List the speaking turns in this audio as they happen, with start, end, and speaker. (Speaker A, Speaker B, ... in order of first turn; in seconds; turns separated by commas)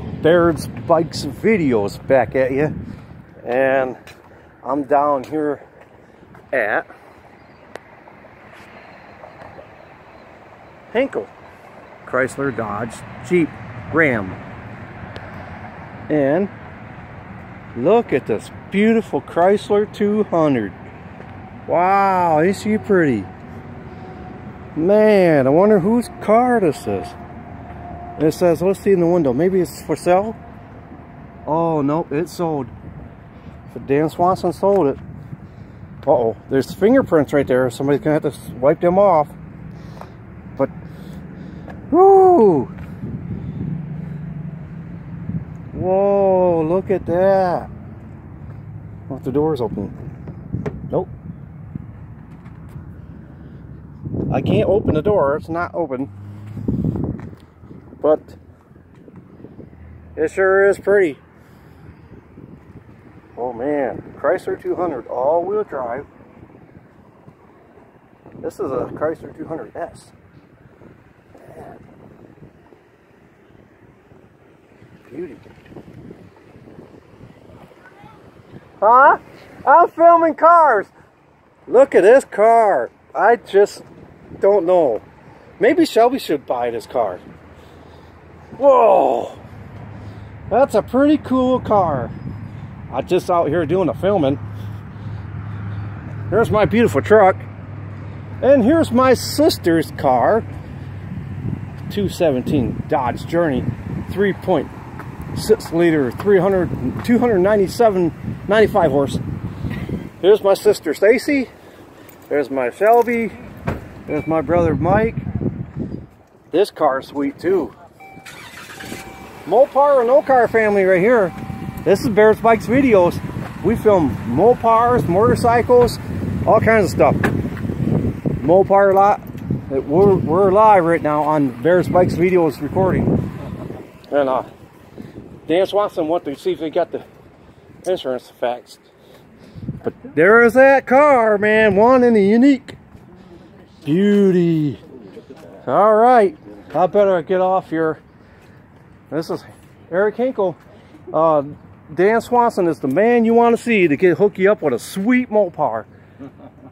Speaker A: 0.2-2.7, Speaker A: 3.4-4.0, Speaker A: 4.6-5.6, Speaker A: 6.5-6.9, Speaker A: 10.9-11.3, Speaker A: 12.0-14.4, Speaker A: 16.1-16.5, Speaker A: 17.8-20.8, Speaker A: 21.7-23.3, Speaker A: 24.8-27.2, Speaker A: 28.2-30.4, Speaker A: 31.4-32.7, Speaker A: 33.7-35.0, Speaker A: 36.0-39.3, Speaker A: 41.9-42.7, Speaker A: 45.7-47.7, Speaker A: 49.1-49.9, Speaker A: 54.3-56.1, Speaker A: 58.0-58.4, Speaker A: 60.2-61.2, Speaker A: 63.4-66.1, Speaker A: 68.4-70.1, Speaker A: 75.0-75.4, Speaker A: 78.8-80.9, Speaker A: 81.7-83.8, Speaker A: 84.4-85.0, Speaker A: 85.6-87.2, Speaker A: 88.6-89.4, Speaker A: 90.5-92.1, Speaker A: 92.9-94.4, Speaker A: 96.3-97.5, Speaker A: 98.4-100.5, Speaker A: 101.9-104.7, Speaker A: 105.3-109.2, Speaker A: 110.2-111.5, Speaker A: 112.3-113.4, Speaker A: 114.1-115.2, Speaker A: 116.5-117.7, Speaker A: 119.5-127.3, Speaker A: 128.4-133.2, Speaker A: 134.1-134.5, Speaker A: 135.5-137.1, Speaker A: 137.8-138.9, Speaker A: 139.8-142.8, Speaker A: 143.8-144.8, Speaker A: 145.6-148.0, Speaker A: 149.1-150.6, Speaker A: 151.1-155.9